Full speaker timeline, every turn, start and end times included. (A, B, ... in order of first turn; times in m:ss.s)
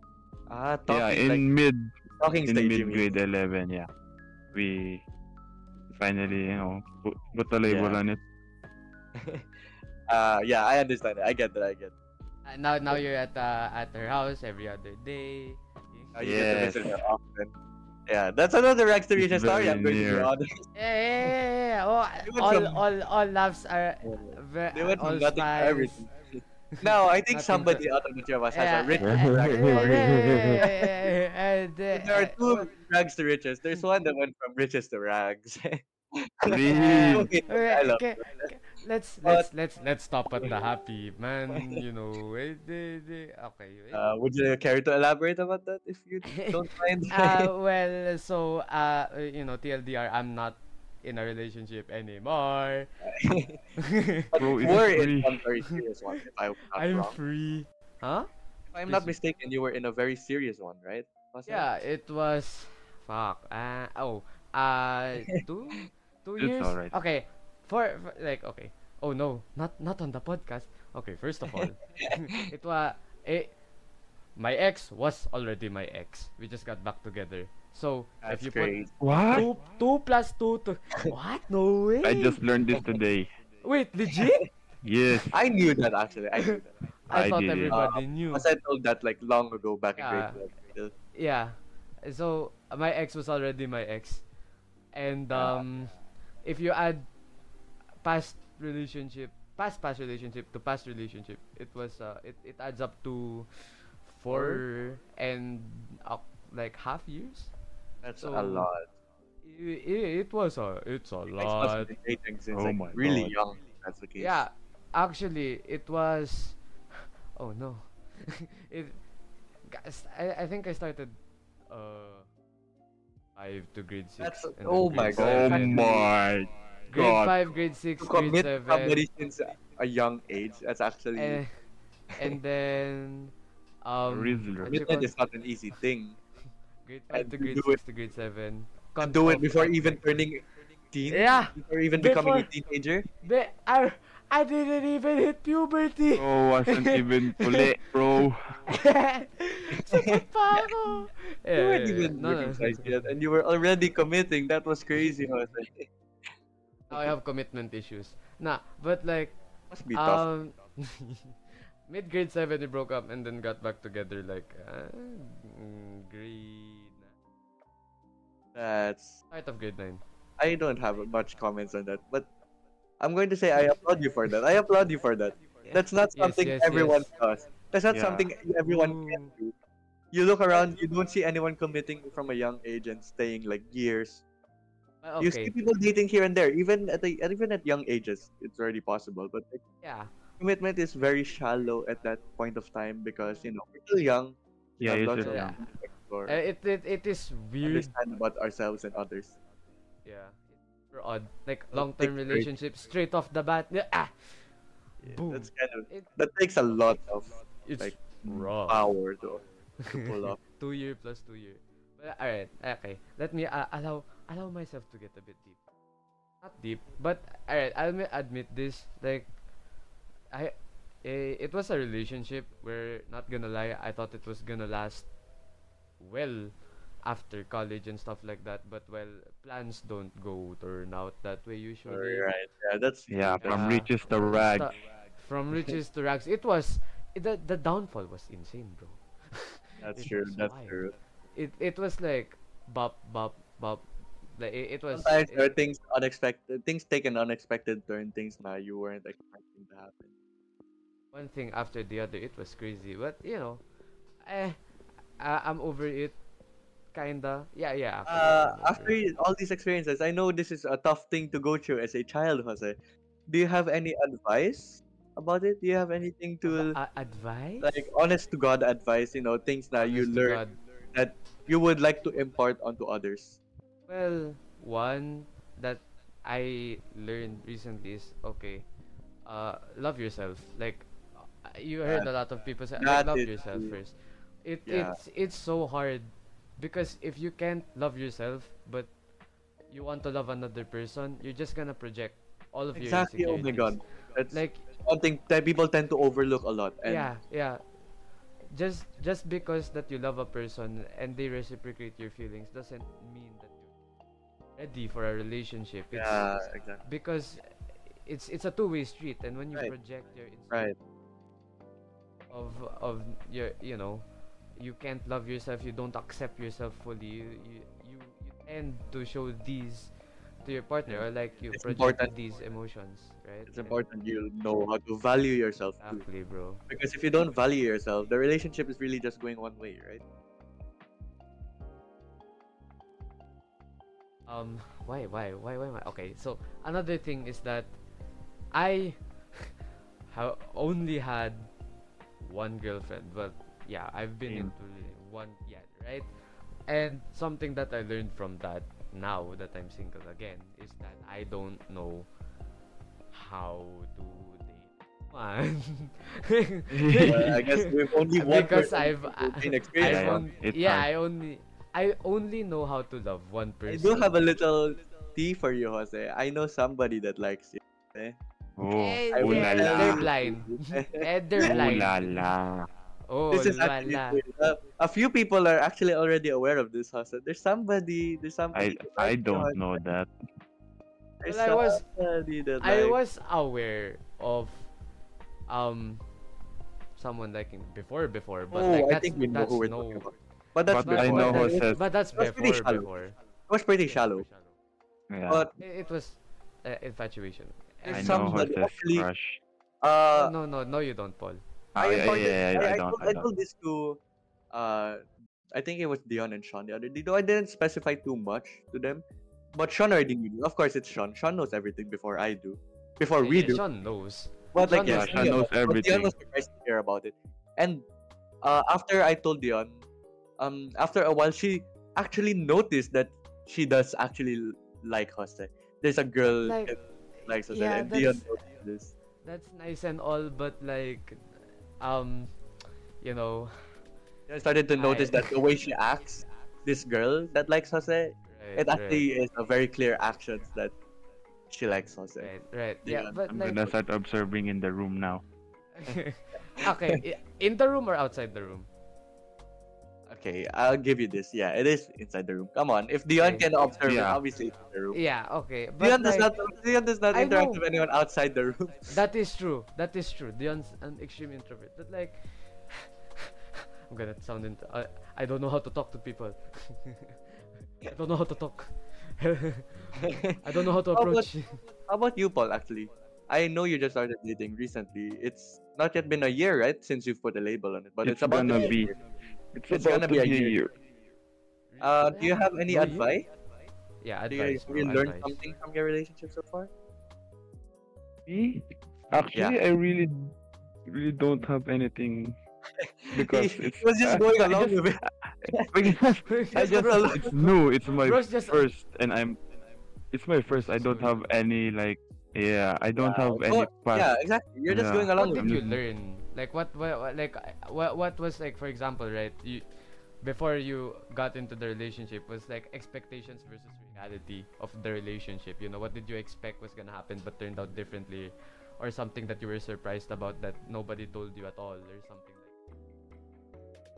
0:00.5-0:01.4 A
0:00.9-0:03.9 B
0:02.2-0:03.1 A
0:04.5-0:05.0 B
0:05.9-0:08.2 B
0:07.7-0:08.0 A
0:09.2-0:09.5 A
0:10.1-0:11.9 A
0:12.5-0:16.2 C
0:16.2-0:17.5 A
0:16.2-0:17.0 B
0:18.1-0:20.6 A
0:19.2-0:20.3 B
0:20.8-0:26.1 C
0:22.2-0:22.8 A
0:24.0-0:31.1 A
0:26.7-0:27.8 C
0:28.5-0:32.7 C
0:29.0-0:30.6 B
0:31.9-0:38.5 A
0:36.4-0:37.3 B
0:36.7-0:44.1 C
0:41.5-0:41.8 A
0:43.9-0:47.5 A
0:46.3-0:46.6 C
0:47.1-0:52.9 C
0:53.0-0:53.6 A
0:53.8-0:54.8 C
0:54.3-0:57.2 A
0:54.4-0:55.4 B
0:56.7-0:58.3 C
0:58.7-1:01.7 A
0:58.9-0:59.1 C
1:01.5-1:13.6 C
1:06.4-1:06.9 B
1:11.5-1:12.4 A
1:14.4-1:18.8 C
1:18.2-1:18.9 A
1:19.0-1:19.5 B
1:19.3-1:22.4 C
1:22.0-1:23.3 B
1:23.6-1:24.5 C
1:24.8-1:25.4 B
1:25.3-1:26.7 A
1:27.1-1:28.5 C
1:27.1-1:27.8 B
1:27.7-1:30.9 A
1:30.0-1:30.4 C
1:31.1-1:34.2 C
1:34.9-1:37.1 C
1:35.3-1:35.6 A
1:38.0-1:43.5 C
1:44.0-1:47.5 C
1:44.3-1:44.6 A
1:48.0-1:48.9 A
1:48.2-1:48.7 C
1:49.4-1:51.9 C
1:51.3-1:54.4 A
1:52.5-1:53.3 B
1:54.2-1:56.6 C
1:57.4-1:59.0 C
1:59.7-2:01.2 C
2:01.7-2:02.3 C
2:03.4-2:05.9 C
2:04.2-2:06.1 A
2:05.2-2:07.4 B
2:06.9-2:09.0 C
2:08.0-2:11.4 A
2:11.2-2:11.5 C
2:12.2-2:15.1 C
2:14.1-2:14.8 B
2:14.7-2:16.2 A
2:16.8-2:20.0 C
2:17.1-2:17.8 A
2:19.0-2:23.1 A
2:21.1-2:22.5 C
2:23.2-2:27.8 C
2:26.2-2:28.5 B
2:28.7-2:32.9 C
2:29.8-2:30.7 A
2:31.6-2:35.9 A
2:36.9-2:39.4 C
2:39.7-2:40.3 A
2:39.9-2:47.1 C
2:48.6-2:49.2 A
2:49.3-2:50.0 C
2:50.4-2:52.3 A
2:53.0-2:59.5 A
2:55.6-2:57.1 C
2:57.9-2:58.3 B
2:58.6-2:59.3 C
3:00.1-3:04.2 A
3:05.0-3:05.5 C
3:05.2-3:09.6 A
3:09.8-3:10.1 C
3:10.4-3:16.4 A
3:14.8-3:15.5 B
3:15.2-3:15.6 C
3:16.3-3:17.9 C
3:17.6-3:19.4 A
3:20.0-3:24.4 C
3:21.7-3:22.5 A
3:25.0-3:26.1 C
3:25.0-3:30.4 A
3:27.6-3:28.9 C
3:29.8-3:35.6 C
3:36.4-3:39.3 C
3:40.3-3:45.1 C
3:46.0-3:52.3 C
3:51.9-3:53.7 A
3:53.1-3:54.7 B
3:53.4-4:00.8 C
3:59.8-4:01.0 A
4:01.3-4:03.8 C
4:04.4-4:05.5 C
4:04.9-4:10.1 A
4:11.1-4:13.6 C
4:14.2-4:14.6 C
4:15.2-4:16.2 C
4:16.9-4:19.0 C
4:18.1-4:22.8 A
4:23.3-4:26.8 A
4:26.4-4:27.7 C
4:27.6-4:30.4 A
4:29.8-4:30.6 C
4:30.9-4:33.4 A
4:33.9-4:38.7 C
4:39.3-4:48.9 C
4:42.8-4:43.8 A
4:44.7-4:45.0 A
4:49.7-4:53.8 C
4:52.8-4:57.1 A
4:54.3-4:54.7 C
4:56.8-4:57.6 C
4:58.5-5:03.7 C
5:04.6-5:10.7 C
5:05.9-5:06.8 A
5:12.3-5:14.1 C
5:14.6-5:19.9 C
5:20.4-5:23.8 C
5:20.9-5:22.1 A
5:23.5-5:26.0 A
5:25.8-5:26.6 C
5:26.7-5:30.0 A
5:34.3-5:37.7 C
5:38.5-5:39.5 C
5:40.1-5:41.5 C
5:42.2-5:46.1 C
5:44.3-5:44.5 B
5:46.7-5:52.1 C
5:53.1-6:04.2 C
5:56.7-5:57.4 B
5:57.0-6:00.2 A
5:59.8-6:00.9 B
6:03.7-6:08.2 A
6:08.6-6:10.1 B
6:08.7-6:12.2 C
6:09.1-6:11.6 A
6:11.4-6:12.7 B
6:13.1-6:14.2 C
6:13.3-6:19.6 A
6:18.5-6:20.1 B
6:21.2-6:23.0 A
6:21.3-6:21.8 C
6:22.6-6:24.7 C
6:25.5-6:26.0 C
6:27.0-6:30.1 C
6:28.5-6:32.9 A
6:30.7-6:31.8 B
6:30.7-6:33.2 C
6:33.5-6:34.3 A
6:33.9-6:34.6 C
6:35.1-6:35.5 B
6:35.3-6:35.6 A
6:35.6-6:38.4 C
6:37.8-6:39.1 A
6:37.9-6:39.4 B
6:39.8-6:40.3 A
6:40.1-6:41.4 C
6:41.8-6:43.3 B
6:41.8-6:44.0 A
6:44.5-6:53.6 A
6:53.2-6:55.4 C
6:54.5-6:57.8 A
6:54.8-6:56.1 B
6:58.4-6:59.8 A
7:00.4-7:08.9 A
7:06.4-7:08.3 C
7:09.2-7:11.2 C
7:11.8-7:12.3 C
7:13.0-7:13.7 C
7:14.3-7:20.8 A
7:14.8-7:15.3 C
7:18.3-7:19.1 C
7:21.5-7:22.3 A
7:22.2-7:23.7 C
7:22.8-7:23.2 A
7:23.3-7:25.2 B
7:25.8-7:28.7 C
7:26.6-7:27.0 A
7:30.1-7:35.0 A
7:33.2-7:33.5 C
7:33.9-7:34.2 B
7:34.9-7:36.3 C
7:35.8-7:39.0 A
7:37.1-7:37.6 C
7:38.9-7:43.3 C
7:43.9-7:51.6 C
7:50.0-7:50.4 A
7:50.9-7:51.3 A
7:51.9-7:59.0 A
7:58.0-7:59.0 B
7:59.5-8:00.7 B
7:59.7-8:00.6 A
8:01.7-8:03.1 C
8:01.8-8:03.3 A
8:04.0-8:05.4 C
8:04.3-8:06.7 A
8:08.3-8:10.3 B
8:10.9-8:12.4 B
8:12.8-8:16.0 A
8:13.2-8:14.8 B
8:15.7-8:19.4 B
8:16.3-8:17.3 C
8:16.6-8:17.4 A
8:18.0-8:18.6 C
8:20.1-8:24.1 B
8:20.6-8:21.2 C
8:23.0-8:25.6 A
8:24.7-8:25.8 B
8:25.2-8:29.6 C
8:30.2-8:42.5 C